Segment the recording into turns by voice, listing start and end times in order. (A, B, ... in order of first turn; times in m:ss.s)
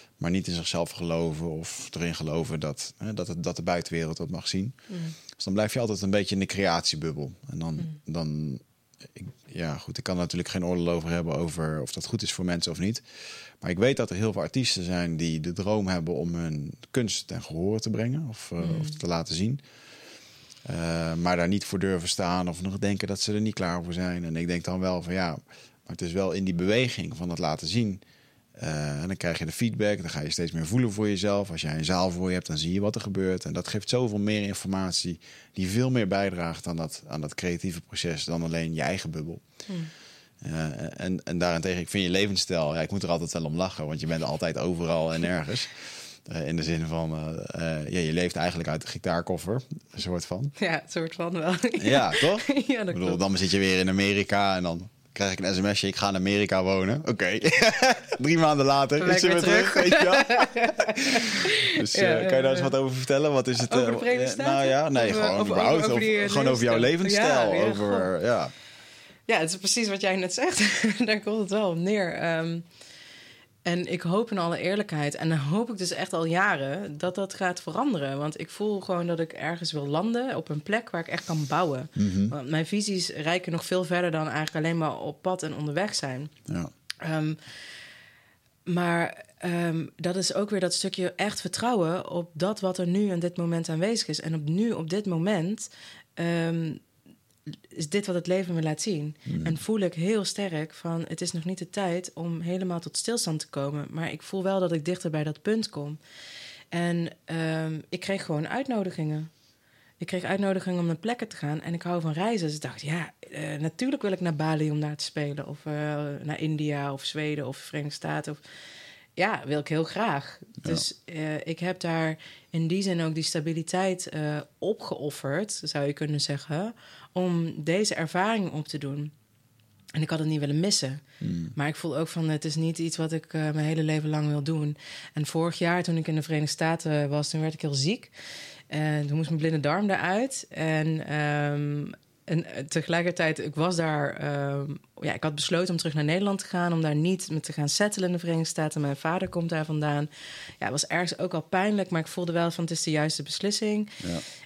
0:00.2-0:04.8 A
0:04.9-0:05.2 B
0:05.3-0:19.7 A
0:18.6-0:19.0 B
0:20.6-0:28.0 A
0:28.6-0:39.6 A
0:39.7-0:39.9 B
0:40.4-0:50.5 A
0:50.6-0:53.2 B
0:51.8-1:08.5 A
0:59.0-1:02.7 B
1:03.6-1:08.1 B
1:09.3-1:12.7 B
1:13.6-1:26.3 B
1:22.0-1:22.3 A
1:27.0-1:27.7 B
1:28.6-1:36.8 B
1:37.5-1:46.0 B
1:39.3-1:39.6 A
1:46.7-1:49.3 B
1:50.0-1:58.4 B
1:59.2-2:09.1 B
2:00.6-2:00.8 A
2:09.9-2:11.0 B
2:11.2-2:11.5 A
2:11.5-2:34.0 B